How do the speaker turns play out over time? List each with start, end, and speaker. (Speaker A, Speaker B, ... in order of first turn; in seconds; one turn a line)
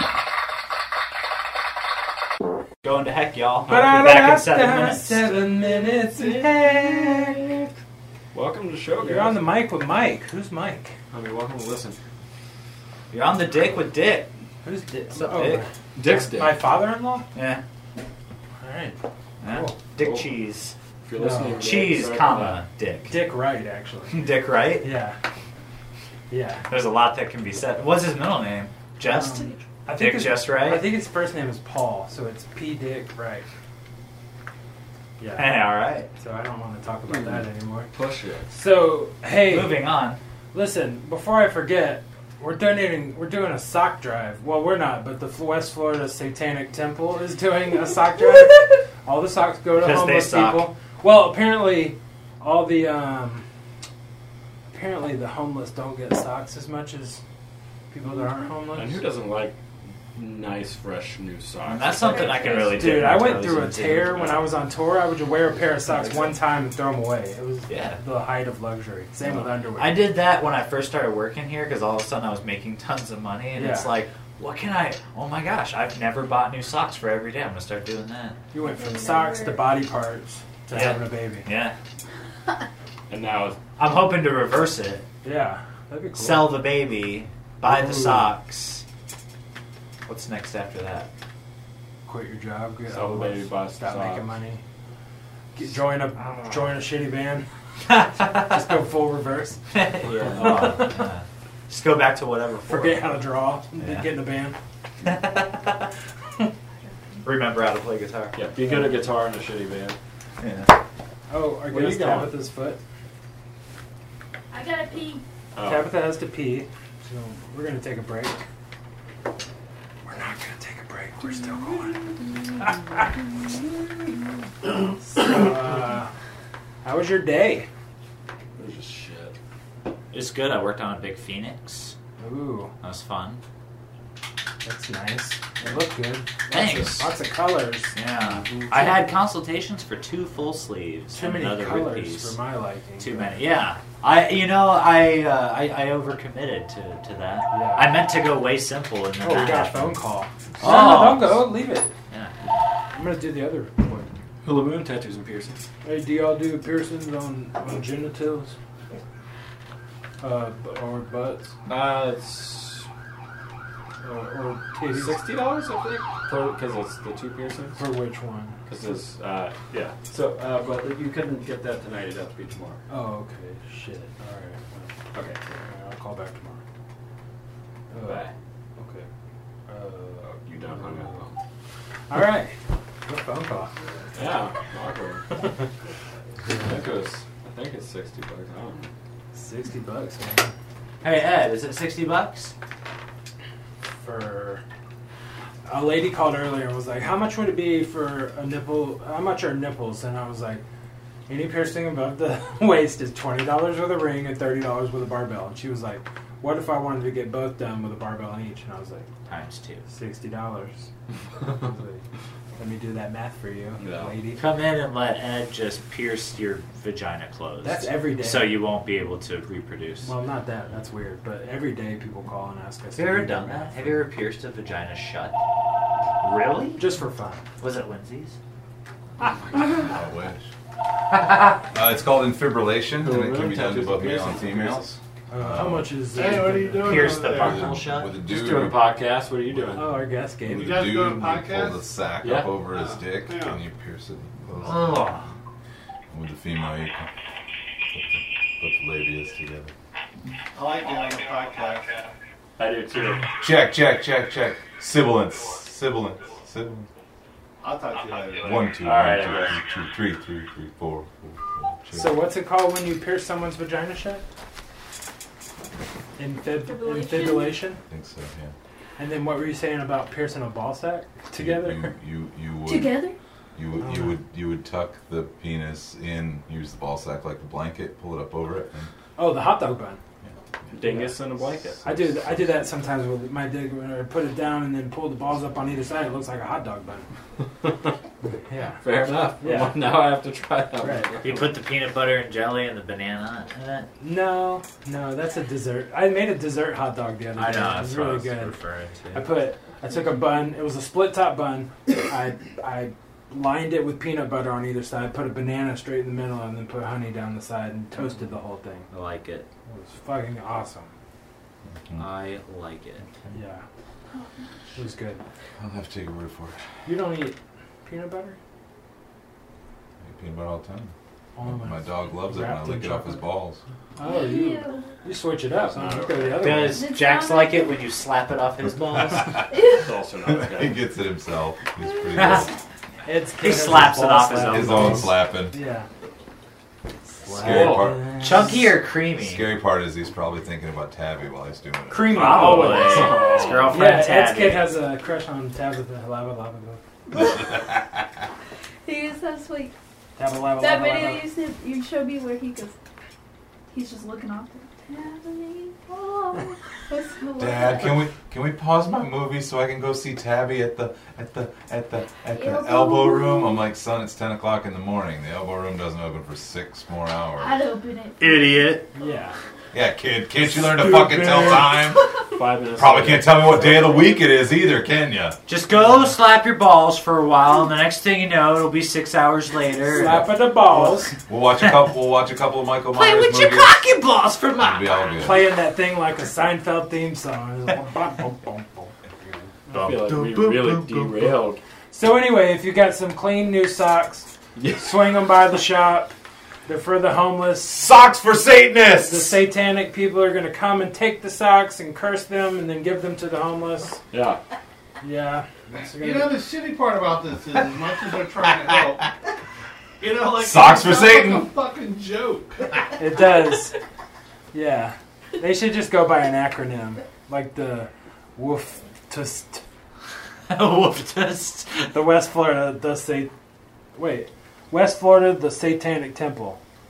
Speaker A: 2.8-5.4
Speaker B: 3.7-7.4
Speaker C: 3.7-3.9
Speaker C: 8.3-9.4
Speaker B: 9.0-10.9
Speaker C: 11.1-12.0
Speaker A: 13.1-14.3
Speaker B: 14.6-17.2
Speaker A: 14.9-15.6
Speaker C: 15.9-16.6
Speaker A: 17.3-17.6
Speaker B: 18.6-19.8
Speaker A: 19.4-20.7
Speaker C: 20.0-20.3
Speaker C: 21.0-22.6
Speaker B: 21.1-21.6
Speaker A: 21.5-23.1
Speaker B: 23.1-25.2
Speaker A: 24.1-24.9
Speaker B: 26.3-26.6
Speaker A: 26.7-30.9
Speaker B: 29.0-33.5
Speaker B: 35.2-37.9
Speaker A: 35.3-36.1
Speaker C: 37.1-38.5
Speaker B: 38.5-39.8
Speaker A: 39.4-40.2
Speaker B: 40.5-53.4
Speaker A: 49.7-50.7
Speaker B: 54.7-57.2
Speaker B: 57.9-59.0
Speaker C: 58.7-59.6
Speaker C: 60.1-62.5
Speaker A: 61.6-64.5
Speaker D: 62.0-62.9
Speaker B: 62.5-70.0
Speaker A: 67.7-68.0
Speaker A: 69.7-78.4
Speaker B: 73.5-74.0
Speaker B: 78.5-81.5
Speaker D: 78.6-79.7
Speaker A: 80.7-81.7
Speaker C: 83.1-83.6
Speaker A: 83.8-85.0
Speaker B: 85.2-86.6
Speaker A: 86.2-88.8
Speaker B: 87.6-88.3
Speaker A: 90.0-91.1
Speaker B: 92.0-94.6
Speaker C: 92.9-94.2
Speaker B: 95.5-97.5
Speaker A: 98.0-98.4
Speaker B: 98.2-99.6
Speaker A: 99.7-103.2
Speaker C: 100.0-100.8
Speaker B: 100.4-100.9
Speaker B: 102.7-104.5
Speaker A: 103.8-104.1
Speaker A: 105.0-105.9
Speaker D: 106.8-107.3
Speaker A: 107.2-108.4
Speaker C: 108.3-110.0
Speaker A: 110.4-110.7
Speaker B: 111.3-112.8
Speaker C: 111.7-112.4
Speaker D: 114.5-115.2
Speaker C: 115.5-115.9
Speaker B: 115.6-118.4
Speaker B: 120.0-122.1
Speaker B: 125.0-126.1
Speaker B: 126.8-127.7
Speaker C: 128.6-129.3
Speaker A: 130.1-131.9
Speaker B: 132.2-132.7
Speaker A: 132.8-133.4
Speaker B: 134.6-137.9
Speaker A: 136.5-137.1
Speaker A: 137.9-142.3
Speaker C: 138.3-138.8
Speaker B: 141.1-143.4
Speaker A: 143.0-150.0
Speaker B: 147.5-148.0
Speaker B: 149.2-151.9
Speaker A: 150.6-151.5
Speaker A: 152.1-152.3
Speaker B: 152.9-154.1
Speaker C: 154.4-155.6
Speaker B: 155.8-158.5
Speaker B: 160.2-161.5
Speaker C: 161.7-162.9
Speaker B: 164.0-165.2
Speaker C: 164.9-167.8
Speaker B: 167.8-168.6
Speaker C: 168.7-172.8
Speaker B: 172.9-174.9
Speaker C: 175.1-175.4
Speaker B: 175.6-176.6
Speaker B: 177.9-178.2
Speaker C: 178.1-178.3
Speaker B: 178.8-179.1
Speaker B: 179.7-181.2
Speaker C: 180.2-181.4
Speaker B: 182.1-183.7
Speaker C: 184.1-185.2
Speaker C: 186.4-188.9
Speaker B: 189.3-190.5
Speaker A: 191.0-192.5
Speaker B: 194.0-194.6
Speaker B: 195.7-200.6
Speaker B: 201.3-209.1
Speaker A: 209.2-209.8
Speaker B: 209.9-210.9
Speaker B: 211.4-212.0
Speaker B: 212.6-214.6
Speaker C: 213.8-214.1
Speaker A: 214.3-220.1
Speaker B: 217.6-218.7
Speaker B: 220.0-224.0
Speaker A: 222.9-225.4
Speaker A: 226.2-226.8
Speaker B: 226.8-227.4
Speaker A: 227.6-228.4
Speaker E: 229.6-230.5
Speaker A: 231.1-231.5
Speaker E: 231.7-235.9
Speaker C: 233.0-234.9
Speaker B: 235.3-237.3
Speaker F: 236.1-237.6
Speaker A: 236.8-238.2
Speaker E: 237.3-238.8
Speaker C: 238.3-239.9
Speaker E: 239.4-239.9
Speaker B: 239.8-240.9
Speaker E: 240.4-245.1
Speaker F: 240.4-241.8
Speaker C: 242.2-242.5
Speaker F: 242.6-243.6
Speaker A: 244.6-245.3
Speaker E: 246.1-247.1
Speaker E: 247.9-249.7
Speaker F: 250.5-251.9
Speaker C: 252.6-253.2
Speaker E: 253.4-256.9
Speaker F: 257.6-258.6
Speaker E: 258.4-262.2
Speaker C: 258.8-259.6
Speaker B: 261.9-264.2
Speaker B: 266.2-267.8
Speaker D: 266.6-267.6
Speaker E: 267.9-268.5
Speaker B: 269.0-271.9
Speaker E: 271.3-273.0
Speaker D: 272.6-273.1
Speaker E: 273.6-278.9
Speaker B: 273.8-274.1
Speaker B: 279.1-280.0
Speaker C: 280.7-282.0
Speaker B: 280.8-281.1
Speaker B: 281.8-287.1
Speaker B: 288.4-288.8
Speaker C: 288.8-291.5
Speaker B: 289.4-289.8
Speaker B: 290.8-291.1
Speaker A: 291.2-293.9
Speaker B: 294.0-298.6
Speaker A: 297.3-299.2
Speaker B: 299.1-308.9
Speaker A: 308.9-309.4
Speaker B: 309.7-310.9
Speaker A: 312.0-313.0
Speaker B: 313.3-313.6
Speaker D: 314.1-314.5
Speaker B: 314.7-315.2
Speaker E: 315.6-316.6
Speaker B: 316.9-317.3
Speaker B: 317.9-318.4
Speaker E: 320.0-320.9
Speaker B: 321.4-323.2
Speaker E: 321.4-323.6
Speaker B: 323.9-326.9
Speaker D: 324.0-324.9
Speaker C: 325.6-326.5
Speaker A: 326.4-329.4
Speaker D: 326.6-327.8
Speaker E: 329.1-329.6
Speaker D: 329.5-329.9
Speaker C: 329.7-330.8
Speaker E: 330.2-332.5
Speaker D: 331.9-332.1
Speaker A: 332.1-332.5
Speaker B: 333.0-335.9
Speaker A: 333.4-335.1
Speaker E: 334.4-335.6
Speaker B: 337.1-338.7
Speaker E: 337.2-338.5
Speaker A: 337.3-339.5
Speaker C: 337.6-337.9
Speaker E: 339.1-342.2
Speaker A: 341.9-344.6
Speaker B: 342.1-346.8
Speaker C: 342.4-343.6
Speaker D: 347.2-347.4
Speaker D: 348.8-349.7
Speaker B: 350.1-351.3
Speaker D: 350.6-352.7
Speaker D: 353.7-358.0
Speaker E: 357.4-367.6
Speaker D: 362.3-363.6
Speaker D: 367.4-368.7
Speaker A: 368.2-368.9
Speaker B: 368.9-369.4
Speaker E: 369.7-372.1
Speaker B: 370.6-371.7
Speaker C: 372.3-373.8
Speaker E: 372.8-375.4
Speaker A: 375.5-381.1
Speaker B: 379.9-381.1
Speaker E: 381.3-383.8
Speaker A: 382.9-385.5
Speaker E: 384.6-385.5
Speaker B: 385.2-389.5
Speaker A: 389.7-391.2
Speaker C: 389.8-391.6
Speaker E: 390.1-391.0
Speaker B: 391.9-396.1
Speaker C: 394.6-395.0
Speaker B: 396.6-397.9
Speaker E: 397.7-399.3
Speaker B: 399.0-404.0
Speaker C: 404.1-404.4
Speaker B: 405.0-406.4
Speaker F: 406.0-409.0
Speaker F: 410.0-412.6
Speaker E: 410.3-411.5
Speaker B: 412.9-413.7
Speaker B: 414.5-419.6
Speaker A: 420.5-421.9
Speaker B: 421.8-423.3
Speaker B: 423.9-426.6